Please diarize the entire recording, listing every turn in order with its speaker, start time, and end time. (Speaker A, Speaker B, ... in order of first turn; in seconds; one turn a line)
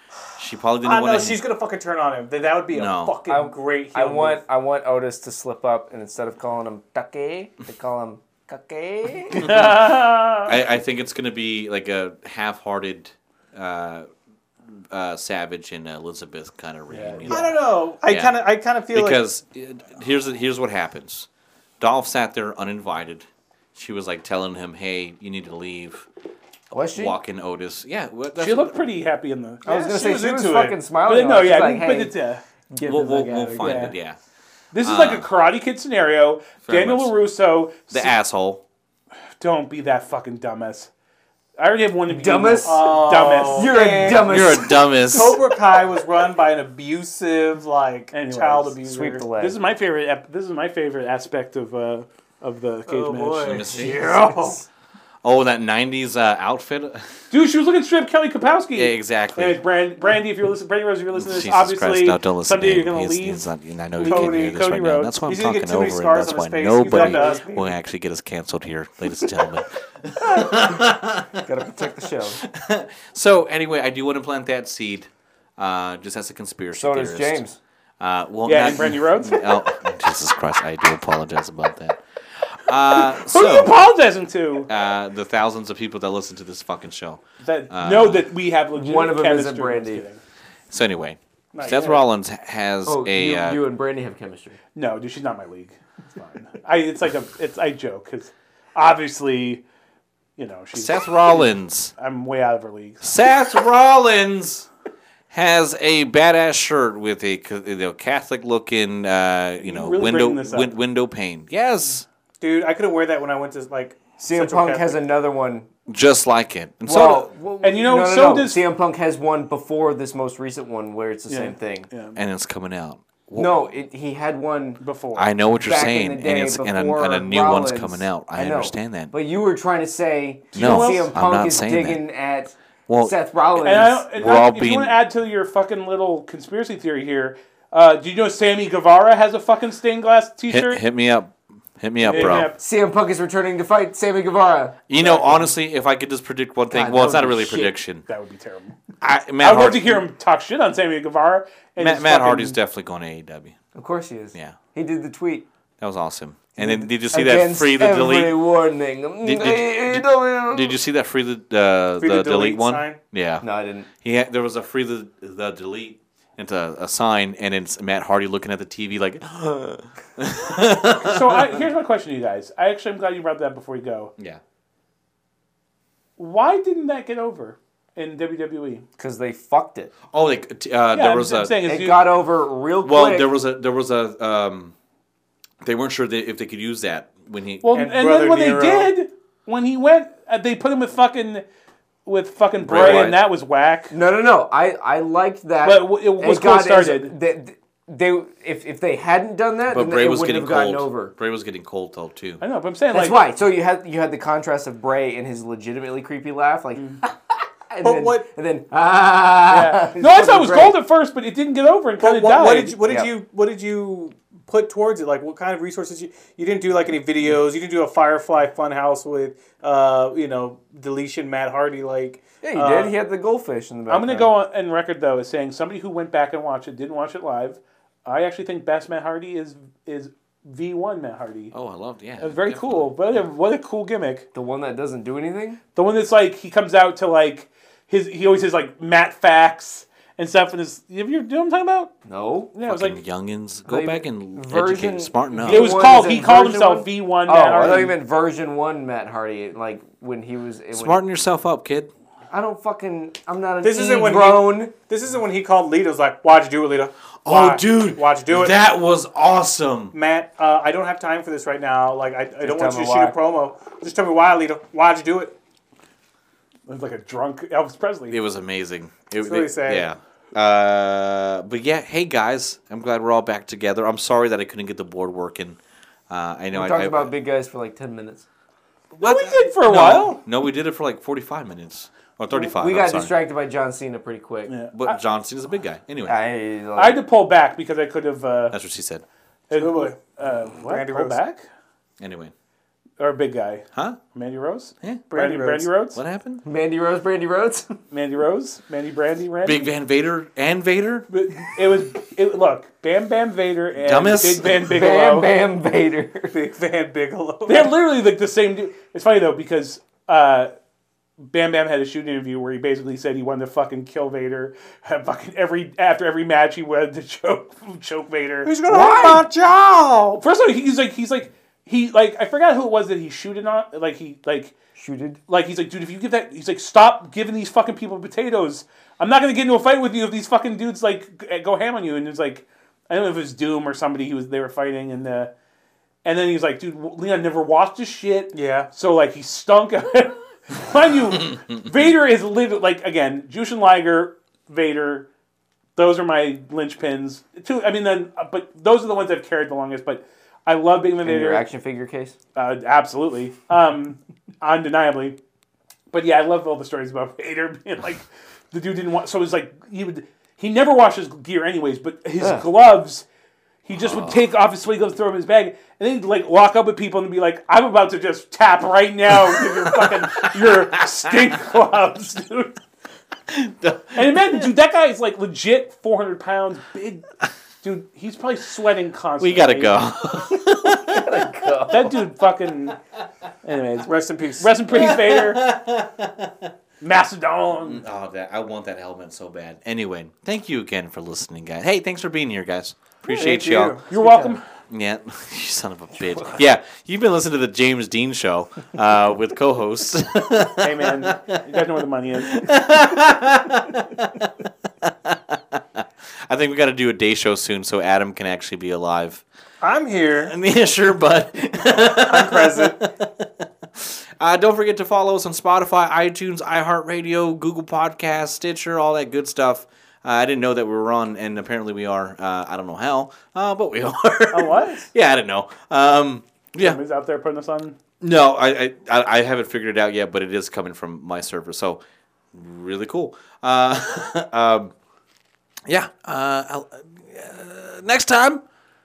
Speaker A: 0.3-1.4
Speaker B: 0.8-4.4
Speaker A: 2.7-3.2
Speaker C: 3.3-9.5
Speaker D: 9.3-10.6
Speaker A: 9.4-9.8
Speaker A: 10.4-14.1
Speaker A: 14.9-18.4
Speaker D: 16.9-17.5
Speaker B: 17.2-19.2
Speaker A: 18.9-21.3
Speaker A: 21.8-26.1
Speaker C: 26.7-27.2
Speaker A: 26.9-28.7
Speaker D: 28.4-32.4
Speaker C: 29.6-32.1
Speaker C: 32.7-33.9
Speaker A: 32.8-34.2
Speaker D: 33.6-33.9
Speaker D: 34.7-38.1
Speaker A: 34.8-35.3
Speaker A: 36.6-37.1
Speaker A: 37.9-38.6
Speaker D: 39.4-40.9
Speaker D: 41.6-44.0
Speaker C: 42.1-42.9
Speaker B: 42.7-49.2
Speaker C: 43.5-44.8
Speaker A: 44.1-45.4
Speaker D: 48.1-53.6
Speaker C: 48.8-49.6
Speaker B: 52.9-54.6
Speaker A: 53.4-54.1
Speaker A: 55.2-57.0
Speaker D: 57.3-63.4
Speaker A: 58.7-59.6
Speaker A: 61.1-71.5
Speaker D: 64.0-65.2
Speaker B: 64.0-64.6
Speaker B: 65.3-67.7
Speaker D: 66.8-67.4
Speaker C: 71.4-72.4
Speaker A: 72.3-77.4
Speaker C: 76.7-77.6
Speaker A: 78.0-83.8
Speaker D: 78.4-79.5
Speaker D: 82.9-84.7
Speaker A: 84.7-88.3
Speaker D: 87.4-90.2
Speaker C: 88.7-90.0
Speaker A: 90.7-93.6
Speaker D: 91.5-92.0
Speaker C: 92.8-94.6
Speaker D: 94.7-99.6
Speaker D: 100.4-103.1
Speaker A: 100.7-101.9
Speaker A: 103.0-104.7
Speaker A: 105.3-112.0
Speaker D: 109.6-110.7
Speaker B: 112.4-115.0
Speaker C: 114.2-115.7
Speaker A: 115.9-117.3
Speaker C: 116.8-121.9
Speaker D: 117.6-118.6
Speaker D: 121.3-122.2
Speaker A: 122.1-123.5
Speaker C: 123.3-124.8
Speaker D: 124.8-125.3
Speaker A: 125.1-129.1
Speaker C: 125.6-134.1
Speaker D: 130.5-131.1
Speaker A: 130.5-132.0
Speaker A: 132.9-133.1
Speaker D: 133.6-140.8
Speaker A: 134.1-134.9
Speaker A: 140.5-142.5
Speaker D: 142.0-142.6
Speaker C: 142.1-144.8
Speaker A: 144.9-148.1
Speaker D: 145.0-145.5
Speaker C: 146.7-147.8
Speaker D: 148.1-148.8
Speaker A: 149.0-150.1
Speaker D: 149.4-152.6
Speaker A: 151.8-153.6
Speaker C: 153.7-155.4
Speaker A: 155.8-158.4
Speaker C: 156.6-160.8
Speaker A: 159.2-163.4
Speaker B: 162.0-163.0
Speaker C: 163.4-163.9
Speaker A: 164.0-171.6
Speaker D: 171.0-174.1
Speaker D: 176.2-178.8
Speaker C: 179.0-179.9
Speaker A: 180.1-181.6
Speaker D: 180.9-182.0
Speaker C: 181.6-183.3
Speaker A: 182.8-184.7
Speaker A: 185.6-187.7
Speaker D: 187.6-191.4
Speaker B: 187.7-188.9
Speaker D: 192.1-193.9
Speaker A: 192.6-193.2
Speaker C: 192.8-193.1
Speaker C: 193.9-201.1
Speaker D: 195.6-197.1
Speaker A: 199.7-202.4
Speaker D: 202.4-203.2
Speaker C: 202.9-210.8
Speaker B: 207.8-208.3
Speaker D: 209.5-212.8
Speaker B: 212.0-222.9
Speaker C: 222.4-224.3
Speaker D: 223.9-231.5
Speaker A: 231.5-232.9
Speaker D: 232.2-234.3
Speaker C: 234.3-235.6
Speaker D: 235.7-241.9
Speaker C: 242.1-242.5
Speaker D: 242.5-243.0
Speaker A: 242.7-245.8
Speaker C: 243.6-251.0
Speaker D: 245.4-248.0
Speaker A: 250.7-251.9
Speaker C: 252.3-254.7
Speaker B: 253.6-258.6
Speaker A: 257.2-259.9
Speaker B: 259.9-265.3
Speaker C: 262.4-263.1
Speaker D: 266.7-268.2
Speaker A: 268.1-275.6
Speaker B: 269.2-269.9
Speaker A: 276.1-277.1
Speaker C: 276.5-278.2
Speaker D: 278.9-280.2
Speaker A: 279.0-283.1
Speaker C: 282.3-284.5
Speaker D: 284.5-285.0
Speaker A: 284.7-286.2
Speaker C: 286.1-287.0
Speaker D: 286.8-288.6
Speaker A: 288.5-289.0
Speaker D: 289.5-291.4
Speaker B: 289.5-290.0
Speaker B: 290.6-291.2
Speaker A: 292.0-292.3
Speaker D: 293.0-296.0
Speaker A: 293.7-294.0
Speaker B: 295.1-295.7
Speaker A: 295.9-296.4
Speaker C: 296.4-297.8
Speaker D: 297.9-299.7
Speaker A: 299.4-301.1
Speaker D: 301.1-305.3
Speaker A: 303.7-304.7
Speaker C: 304.6-306.3
Speaker B: 306.3-307.7
Speaker D: 307.5-310.5
Speaker D: 311.3-318.5
Speaker B: 318.4-320.2
Speaker C: 318.7-319.3
Speaker D: 320.2-324.5
Speaker C: 324.8-325.2
Speaker D: 325.3-335.3
Speaker D: 336.0-345.1
Speaker B: 338.3-338.7
Speaker D: 345.8-351.4
Speaker C: 351.0-352.1
Speaker D: 352.3-355.2
Speaker D: 355.9-363.0
Speaker C: 362.2-362.4
Speaker D: 363.6-372.6
Speaker A: 363.8-364.2
Speaker A: 369.2-371.5
Speaker A: 373.3-374.5
Speaker D: 373.9-377.1
Speaker D: 377.6-379.8
Speaker A: 379.2-381.9
Speaker C: 380.4-381.9
Speaker D: 381.7-382.8
Speaker D: 383.4-385.4
Speaker B: 383.8-384.6
Speaker A: 384.7-386.5
Speaker D: 386.8-387.8
Speaker A: 387.6-393.8
Speaker B: 393.0-393.8
Speaker D: 393.9-394.4
Speaker C: 393.9-394.4
Speaker A: 394.7-401.4
Speaker D: 400.6-402.5
Speaker A: 402.2-404.2
Speaker A: 404.9-405.6
Speaker A: 406.3-409.2
Speaker B: 409.6-410.3
Speaker A: 410.3-413.2
Speaker B: 411.7-412.8
Speaker A: 413.8-426.8
Speaker D: 424.3-424.9
Speaker D: 426.6-427.8
Speaker A: 428.0-431.8
Speaker A: 432.3-434.7
Speaker A: 435.7-438.4